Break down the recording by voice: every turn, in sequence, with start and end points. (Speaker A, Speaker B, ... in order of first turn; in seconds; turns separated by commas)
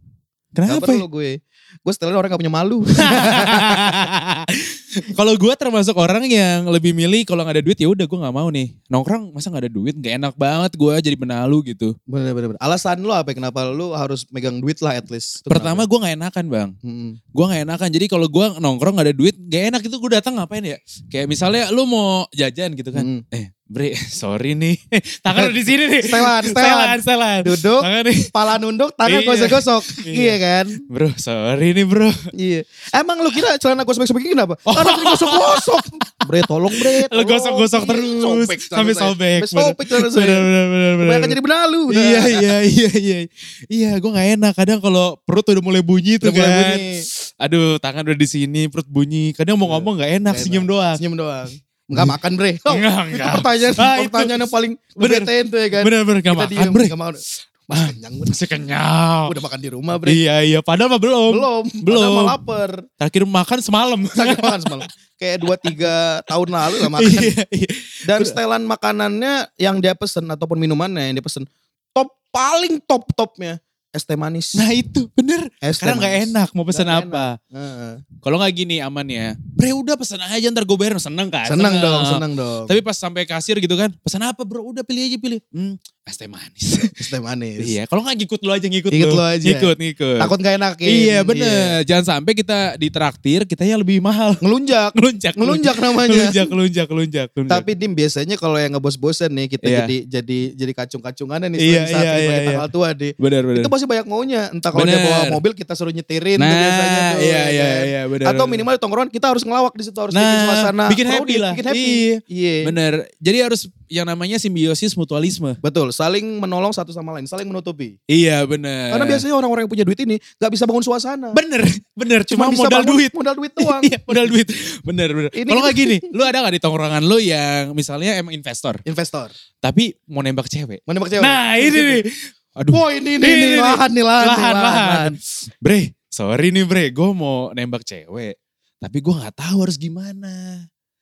Speaker A: 0.6-1.0, Speaker B: 0.7-4.0, Speaker A: 3.0-11.9, Speaker B: 12.1-15.9, Speaker A: 15.5-16.7, Speaker B: 16.8-17.2, Speaker A: 17.3-28.4, Speaker B: 22.9-23.2, Speaker B: 25.3-30.8, Speaker A: 29.1-32.2, Speaker B: 32.4-42.5, Speaker A: 34.7-36.1, Speaker A: 36.7-41.4, Speaker A: 41.9-51.0, Speaker B: 46.2-47.0, Speaker B: 49.7-58.4, Speaker A: 52.7-54.5, Speaker A: 55.0-56.9, Speaker A: 57.7-59.4, Speaker B: 59.3-60.2, Speaker A: 60.0-62.4, Speaker B: 61.3-62.8, Speaker A: 63.0-64.8, Speaker B: 64.2-67.3, Speaker A: 66.7-68.3, Speaker B: 68.1-74.6, Speaker A: 74.6-77.4, Speaker B: 75.6-78.0, Speaker A: 78.2-87.0, Speaker B: 81.5-82.8, Speaker B: 87.0-87.7, Speaker A: 87.6-90.3, Speaker B: 88.9-91.8, Speaker A: 90.8-94.4, Speaker B: 94.4-96.5, Speaker A: 95.0-97.7, Speaker B: 97.5-112.7, Speaker A: 99.6-99.9, Speaker A: 101.6-102.7, Speaker A: 103.2-103.7, Speaker A: 104.7-105.4, Speaker A: 106.4-108.6, Speaker A: 110.1-115.6, Speaker B: 115.6-118.0, Speaker A: 118.1-119.2, Speaker B: 118.9-121.4, Speaker A: 121.3-128.8, Speaker B: 122.3-124.3, Speaker B: 125.3-126.1, Speaker B: 128.9-129.3, Speaker A: 129.6-140.6, Speaker B: 130.9-132.0, Speaker B: 132.7-135.2